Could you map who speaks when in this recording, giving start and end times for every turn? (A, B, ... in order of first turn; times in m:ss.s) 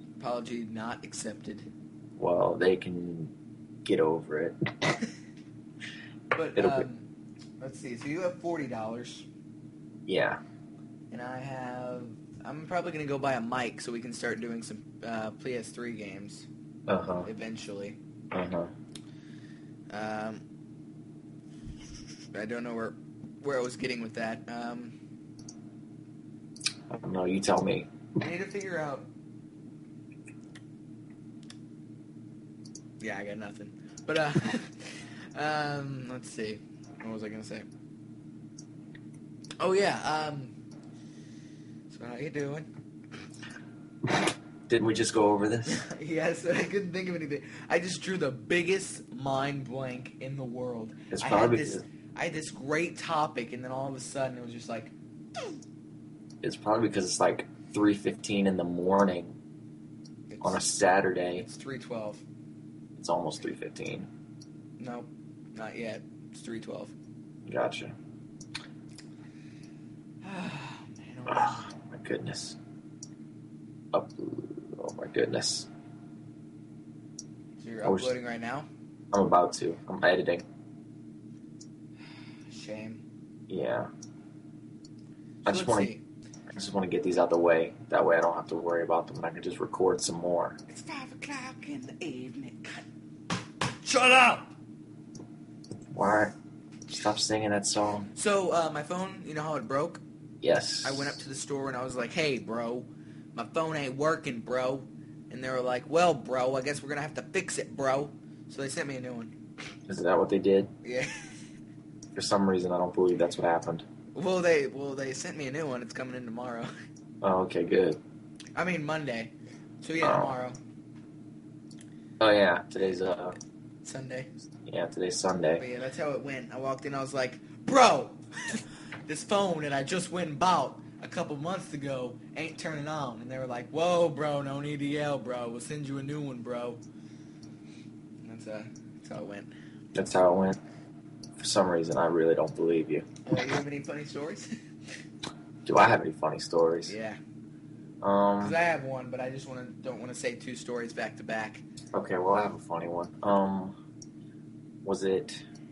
0:00.2-0:01.7 A
0:02.2-0:03.3 B
0:03.8-0:04.9 B
0:06.3-0:07.1 A
0:06.6-0:06.8 B
0:07.6-0:09.3 A
0:10.0-0:10.4 B
0:11.1-0:16.5 A
0:16.9-0:17.3 B
0:17.2-0:18.0 A
0:18.3-0:18.7 B
0:19.9-0:20.4 A
0:22.3-0:24.9 A
0:26.9-0:27.9 B
0:28.2-0:29.1 A
0:33.0-0:37.6 A
0:39.6-0:40.5 A
0:41.9-0:42.7 A
0:44.0-0:45.8 B
0:45.7-0:55.6 A
0:51.1-0:51.8 B
0:56.4-0:59.4 B
1:00.3-1:00.6 A
1:00.4-1:01.4 B
1:01.4-1:02.2 A
1:03.0-1:04.1 B
1:04.8-1:06.9 A
1:07.4-1:07.9 B
1:10.2-1:11.7 A
1:11.3-1:12.6 B
1:13.9-1:15.7 B
1:17.6-1:18.7 A
1:17.8-1:18.1 B
1:19.1-1:20.4 B
1:22.5-1:23.0 A
1:23.5-1:23.9 B
1:25.4-1:25.9 B
1:25.4-1:26.0 A
1:26.5-1:30.6 B
1:30.7-1:32.8 A
1:33.6-1:34.5 A
1:35.9-1:36.3 B
1:36.9-1:38.1 B
1:38.1-1:40.0 A
1:40.4-1:41.2 B
1:40.8-1:49.3 A
1:49.9-1:50.7 B
1:50.8-1:51.3 A
1:52.1-1:53.8 B
1:54.1-1:56.7 A
1:57.2-1:58.0 B
1:58.6-2:00.6 A
2:00.0-2:00.3 B
2:02.2-2:03.4 B
2:03.8-2:04.3 A
2:04.6-2:05.6 B
2:05.6-2:16.8 A
2:18.2-2:19.5 A
2:19.9-2:20.6 B
2:21.4-2:23.0 B
2:23.2-2:24.5 A
2:25.6-2:26.9 B
2:26.9-2:27.2 A
2:28.0-2:28.6 B
2:28.4-2:31.6 A
2:31.9-2:33.7 B
2:34.8-2:35.4 B